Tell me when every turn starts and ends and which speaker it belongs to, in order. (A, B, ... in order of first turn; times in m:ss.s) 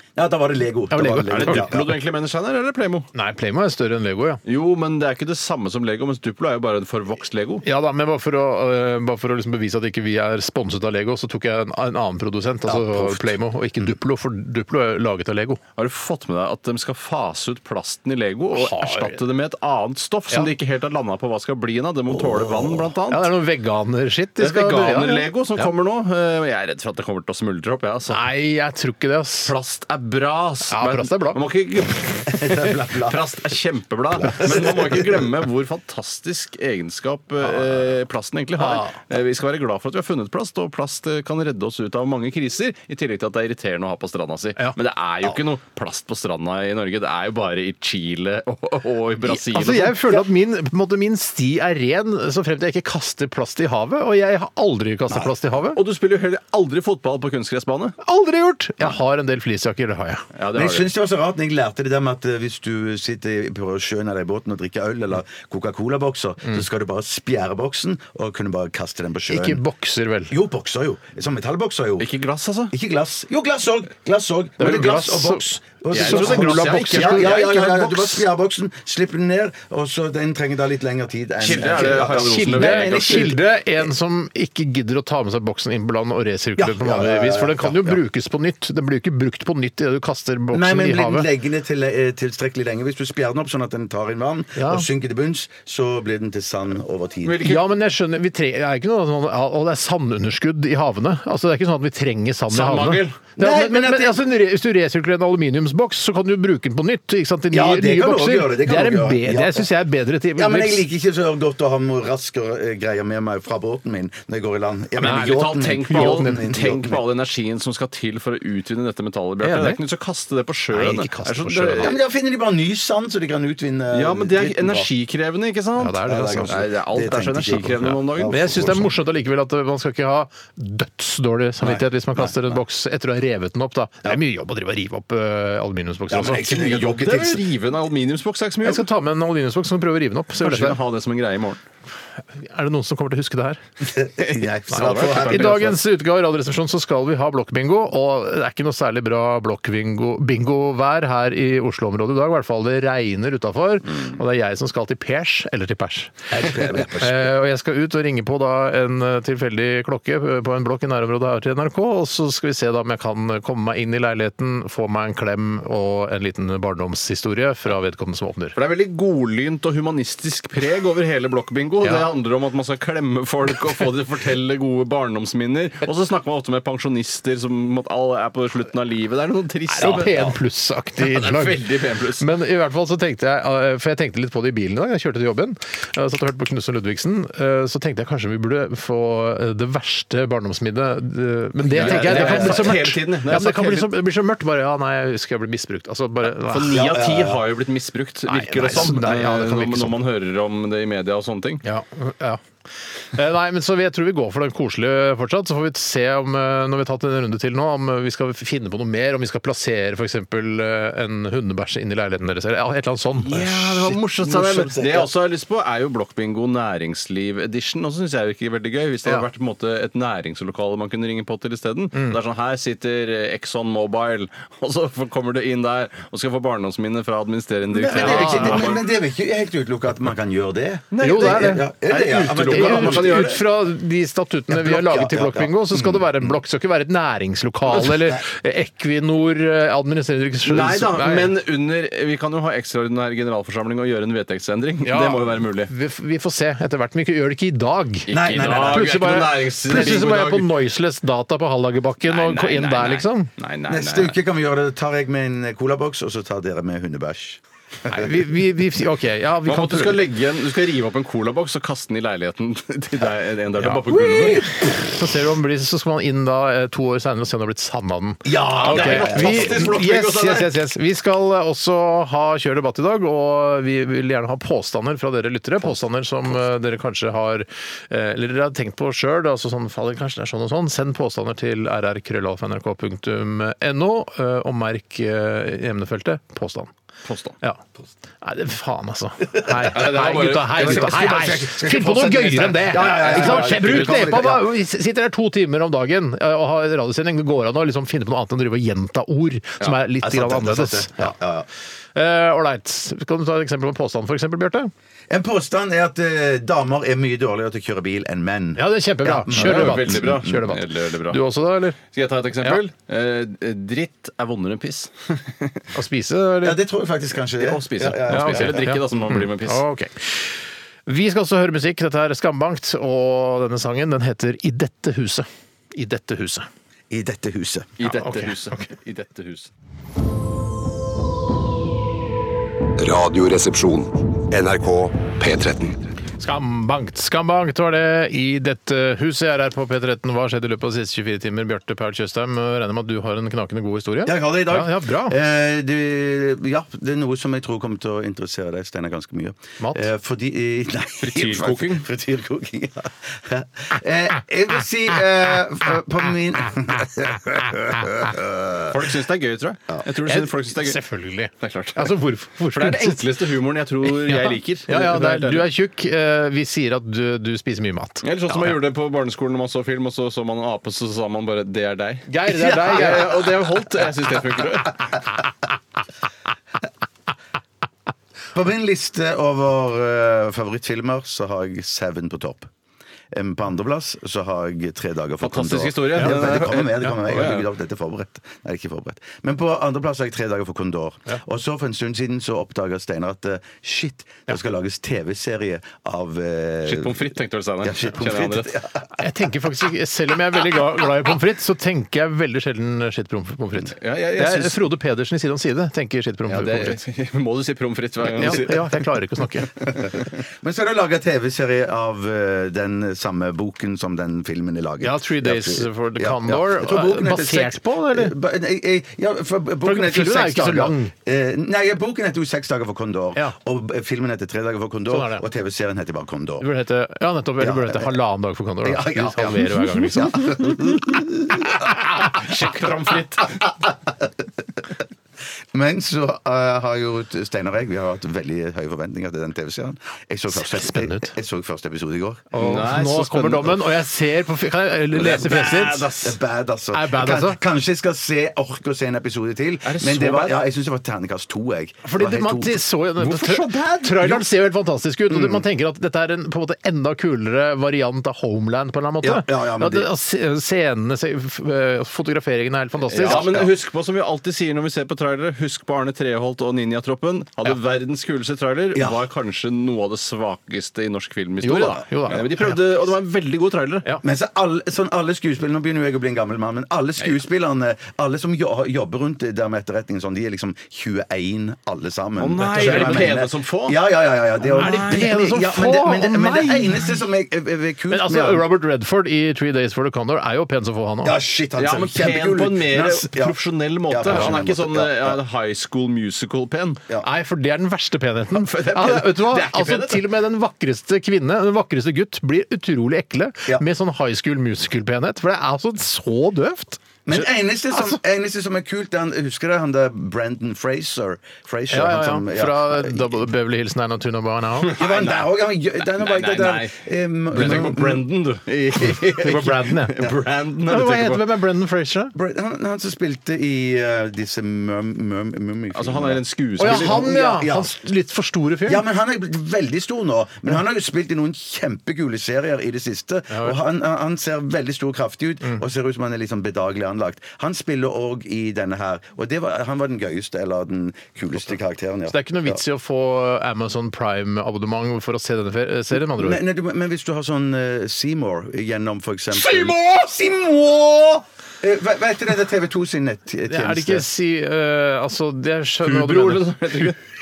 0:00.2-0:01.9 A
0:00.9-0:01.7 B
0:01.3-0:03.1 C
0:03.1-0:04.4 B
0:04.4-0:07.6 C
0:07.6-0:15.6 B
0:12.6-0:13.9 A
0:15.8-0:23.3 C
0:18.5-0:19.2 B
0:22.1-0:22.9 A
0:23.1-0:25.7 B
0:24.4-0:28.2 C
0:28.1-0:29.5 B
0:29.4-0:50.2 C
0:30.7-0:31.4 B
0:32.3-0:33.2 A
0:34.2-0:35.3 A
0:38.6-0:39.0 B
0:49.3-0:55.8 B
0:55.7-0:58.0 C
0:58.0-1:00.2 B
1:00.3-1:00.9 C
1:00.5-1:09.6 A
1:09.3-1:10.3 B
1:10.3-1:12.1 A
1:12.0-1:12.7 C
1:12.7-1:23.4 A
1:14.6-1:18.0 B
1:15.9-1:18.1 C
1:21.4-1:23.4 C
1:21.6-1:31.3 B
1:26.6-1:28.0 A
1:30.5-1:37.4 A
1:34.6-1:34.8 B
1:37.2-1:37.6 C
1:37.4-1:50.8 B
1:42.5-1:43.2 C
1:43.4-1:44.2 A
1:47.5-1:49.7 A
1:50.4-1:57.0 A
1:55.0-1:56.4 B
1:55.0-2:02.0 C
1:59.4-1:59.8 B
2:00.7-2:02.0 B
2:01.8-2:04.9 A
2:03.9-2:08.7 C
2:05.8-2:06.5 B
2:06.0-2:09.0 A
2:07.8-2:16.5 B
2:11.6-2:12.6 A
2:16.1-2:17.4 A
2:16.4-2:18.8 C
2:18.6-2:20.8 B
2:20.4-2:21.6 C
2:22.4-2:23.6 B
2:23.8-2:25.8 A
2:24.2-2:25.7 C
2:24.7-2:48.6 B
2:36.3-2:37.3 A
2:48.5-3:00.2 C
2:51.8-2:52.1 B
2:59.7-3:01.6 B
2:59.8-3:00.3 A
3:01.0-3:02.2 C
3:02.2-3:16.9 B
3:11.7-3:12.8 A
3:11.7-3:13.9 C
3:16.5-3:21.6 C
3:16.6-3:17.4 A
3:18.3-3:20.0 B
3:21.6-3:22.4 B
3:23.1-3:33.5 B
3:33.3-3:48.8 C
3:33.3-3:35.1 A
3:47.8-3:48.8 B
3:47.8-3:53.4 A
3:50.9-3:53.4 C
3:51.0-3:51.7 B
3:52.4-4:01.3 B
3:54.5-3:56.3 A
3:57.7-3:58.2 A
4:00.4-4:05.7 C
4:04.8-4:13.3 B
4:08.1-4:10.5 C
4:08.1-4:10.1 A
4:12.0-4:14.2 C
4:13.7-4:18.2 A
4:17.9-4:20.0 B
4:19.4-4:24.4 C
4:23.6-4:46.7 B
4:28.2-4:29.8 A
4:28.6-4:30.5 C
4:47.0-4:47.4 C
4:48.2-5:01.1 B
4:49.4-4:49.9 A
4:49.5-4:51.2 C
4:50.4-4:54.4 A
4:52.7-4:54.3 C
5:00.0-5:01.5 A
5:01.9-5:04.7 B
5:05.1-5:10.4 A
5:08.6-5:11.8 B
5:09.3-5:11.2 C
5:11.9-5:15.6 C
5:15.7-5:16.6 B
5:16.4-5:18.7 A
5:17.4-5:19.6 C
5:18.1-5:26.5 B
5:26.9-5:27.7 A
5:27.8-5:29.5 C
5:27.8-5:28.7 B
5:32.8-5:35.8 D
5:36.2-5:45.1 B
5:44.0-5:59.0 A
5:49.6-5:49.9 B
5:51.0-5:51.9 C
5:58.7-6:00.8 C
6:00.0-6:03.0 B
6:01.4-6:01.9 C
6:02.5-6:05.5 C
6:03.8-6:08.0 B
6:08.0-6:14.9 C
6:12.1-6:13.2 B
6:12.3-6:13.4 A
6:18.3-6:22.5 A
6:23.1-6:38.9 A
6:25.2-6:27.4 C
6:36.6-6:38.6 C
6:39.0-6:46.8 B
6:43.8-6:44.6 C
6:46.3-6:48.8 C
6:48.2-6:49.5 B
6:49.8-7:06.5 A
6:54.8-6:58.1 B
6:59.6-7:00.9 B
7:04.9-7:05.2 B
7:06.4-7:10.3 B
7:07.4-7:07.9 A
7:08.6-7:11.8 A
7:11.9-7:13.4 C
7:13.4-7:14.6 A
7:15.5-7:22.4 A
7:20.3-7:21.1 B
7:22.3-7:26.0 B
7:22.4-7:23.6 C
7:24.9-7:26.1 C
7:25.0-7:33.5 A
7:26.7-7:27.4 B
7:29.6-7:30.4 C
7:31.8-7:43.2 B
7:33.0-7:34.2 C
7:35.1-7:35.4 A
7:39.0-7:39.9 A
7:42.9-7:53.9 C
7:43.0-7:43.5 A
7:48.7-7:49.0 A
7:51.4-7:52.5 B
7:54.0-8:08.4 A
8:02.2-8:03.8 C
8:02.4-8:03.1 B
8:04.5-8:05.1 C
8:04.6-8:06.9 B
8:07.9-8:11.2 B
8:11.0-8:15.2 A
8:11.6-8:16.8 C
8:14.1-8:14.4 B
8:17.0-8:28.0 B
8:18.3-8:20.0 C
8:27.0-8:33.2 A
8:31.7-8:34.7 B
8:34.6-8:41.3 C
8:34.7-8:38.0 A
8:37.4-8:37.7 B
8:39.2-8:40.0 B
8:40.6-8:42.1 B
8:42.1-8:47.8 A
8:45.7-8:47.0 C
8:46.6-8:48.8 B
8:48.6-9:02.6 A
8:53.3-8:53.6 B
9:02.1-9:06.4 B
9:05.9-9:14.1 A
9:13.5-9:16.9 B
9:15.8-9:17.0 C